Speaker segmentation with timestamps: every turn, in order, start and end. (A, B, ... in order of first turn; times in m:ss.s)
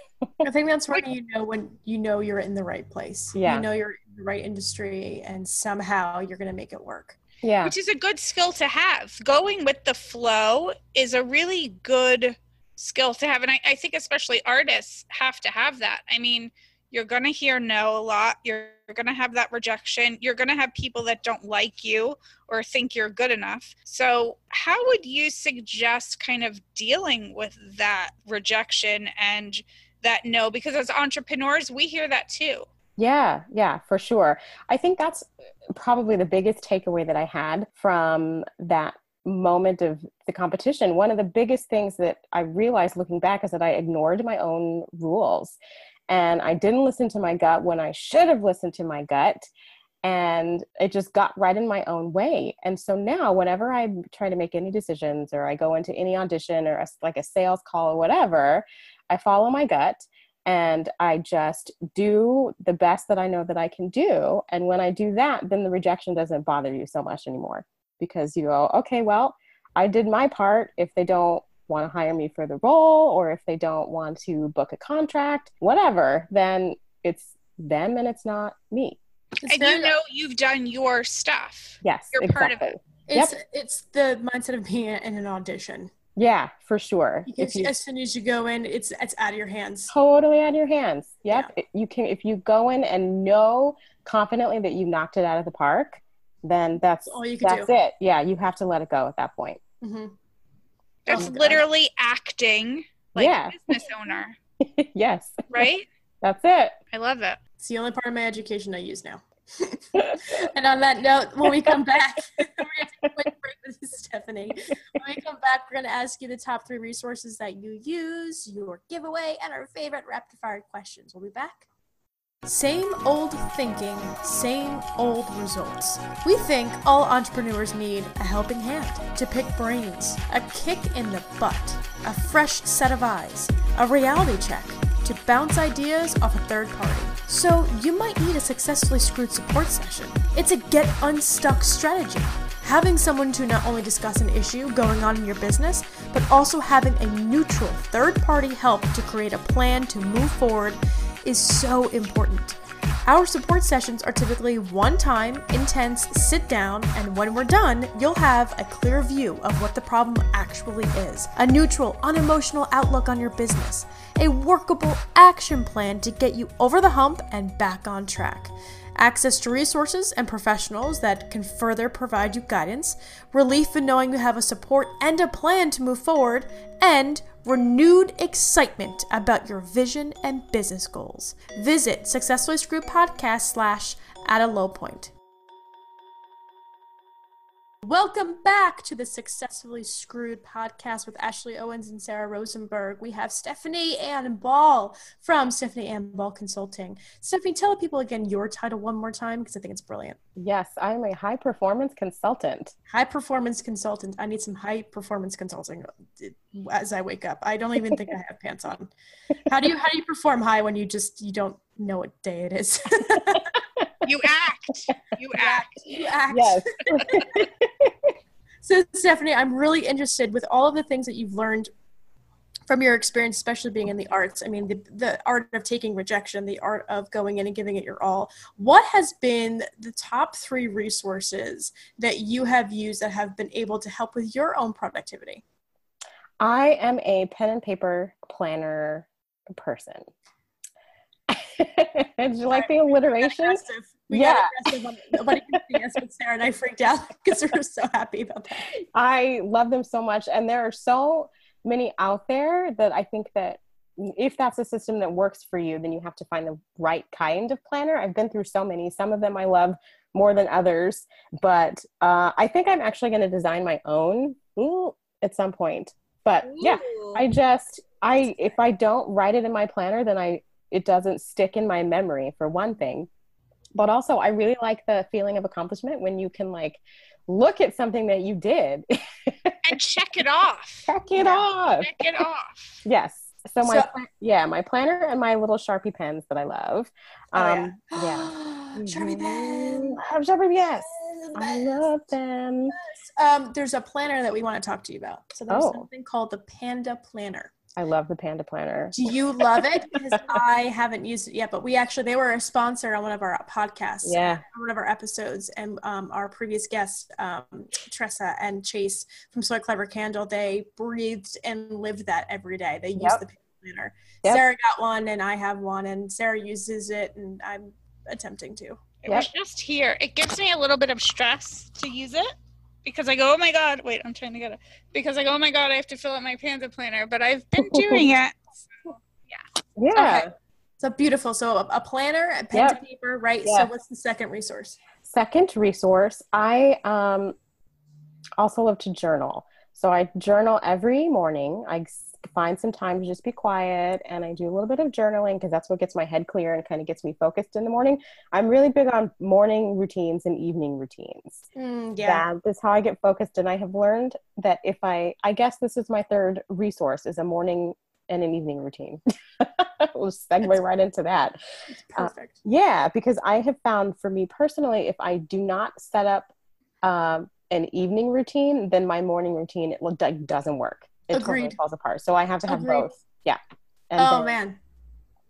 0:00.2-0:00.5 A
0:00.4-0:07.2 B
0:03.4-0:03.6 A
0:07.4-0:07.7 A
0:07.6-0:32.7 C
0:33.0-0:45.6 A
0:46.1-0:49.5 A
0:50.0-1:19.0 A
1:19.4-1:19.9 B
1:19.5-1:22.7 C
1:21.8-1:23.3 A
1:23.1-1:25.9 B
1:26.2-1:27.7 A
1:27.2-1:29.9 B
1:29.9-1:39.6 A
1:37.0-1:37.7 B
1:39.8-1:40.1 B
1:41.0-1:44.4 C
1:41.1-1:41.6 B
1:43.1-1:43.8 A
1:44.6-1:45.7 A
1:45.5-1:45.9 C
1:46.2-1:46.8 A
1:46.9-1:47.4 C
1:47.6-2:01.6 B
1:49.9-1:50.3 A
1:51.4-1:51.7 A
2:02.4-3:05.1 B
3:07.8-3:20.2 B
3:20.4-3:22.7 A
3:22.9-3:28.9 B
3:29.5-3:33.5 B
3:33.8-3:34.1 A
3:34.0-3:35.8 C
3:35.3-3:37.4 B
3:36.3-3:38.1 A
3:38.6-3:41.7 B
3:42.7-3:55.4 B
3:56.4-4:00.1 A
4:01.3-4:04.7 A
4:02.5-4:08.7 B
4:08.9-4:33.1 A
4:26.4-4:27.2 C
4:33.7-4:39.8 A
4:39.6-4:40.9 C
4:40.9-4:42.2 A
4:41.2-4:41.4 B
4:41.8-4:42.8 C
4:42.8-4:52.8 A
4:43.6-4:43.9 B
4:47.3-4:50.0 B
4:50.8-4:51.8 B
4:52.8-4:57.5 B
4:55.5-4:55.9 A
4:57.8-4:59.6 A
4:58.9-5:18.9 B
5:04.0-5:04.4 A
5:19.0-5:22.3 C
5:22.8-5:28.4 C
5:27.6-5:28.1 A
5:29.8-5:30.2 A
5:29.9-5:34.8 B
5:32.5-5:32.8 A
5:33.4-5:33.7 A
5:35.0-5:37.3 A
5:38.4-5:51.4 A
5:51.5-5:52.2 B
5:52.0-6:01.4 A
6:01.8-6:02.4 B
6:02.0-6:06.3 A
6:06.8-6:13.4 A
6:11.1-6:11.6 B
6:12.5-6:12.9 B
6:13.9-6:14.3 A
6:14.0-6:14.6 B